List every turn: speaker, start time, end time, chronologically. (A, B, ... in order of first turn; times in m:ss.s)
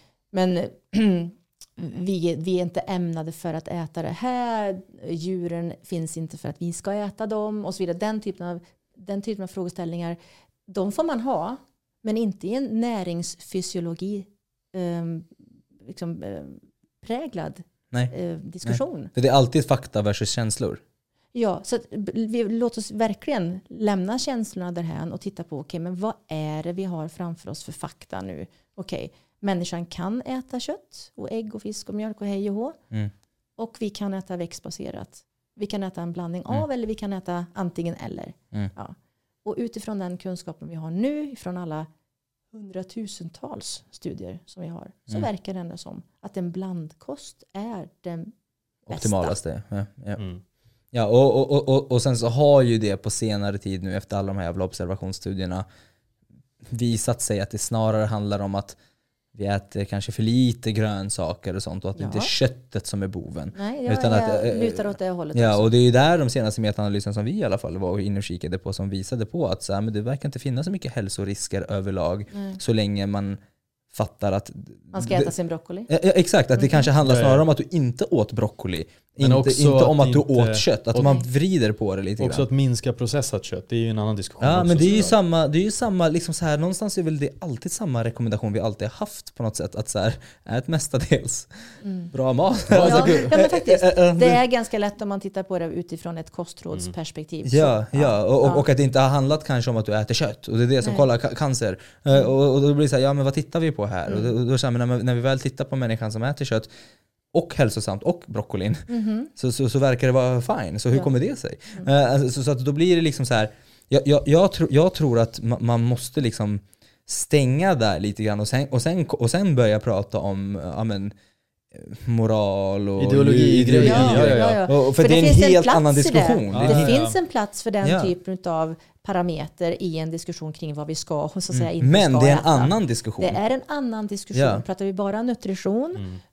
0:00.3-0:19.1 A
0:18.6-0:20.8 B
0:21.3-0:32.8 A
0:33.6-0:41.9 A
0:42.5-0:48.3 A
0:48.9-0:49.4 A
0:48.9-0:50.2 B
0:50.9-0:55.6 B
0:56.7-0:58.8 B
0:59.3-1:13.4 B
1:02.0-1:02.3 A
1:03.5-1:05.7 A
1:12.3-1:12.6 A
1:13.9-1:15.3 B
1:14.9-1:15.9 A
1:15.9-1:22.4 B
1:16.6-1:16.9 A
1:17.0-1:17.4 C
1:19.2-1:21.2 C
1:21.0-1:21.2 A
1:22.2-1:25.2 C
1:24.4-1:34.4 B
1:31.8-1:32.1 A
1:32.7-1:38.6 A
1:32.7-1:33.3 C
1:37.4-1:46.7 B
1:40.8-1:41.0 A
1:44.1-1:44.3 A
1:47.3-2:01.1 B
1:48.9-1:49.3 A
2:01.7-2:06.9 B
2:03.0-2:04.6 C
2:03.8-2:16.1 A
2:06.5-2:07.2 C
2:07.8-2:08.1 B
2:11.5-2:13.4 B
2:14.3-2:14.6 B
2:15.9-2:16.2 C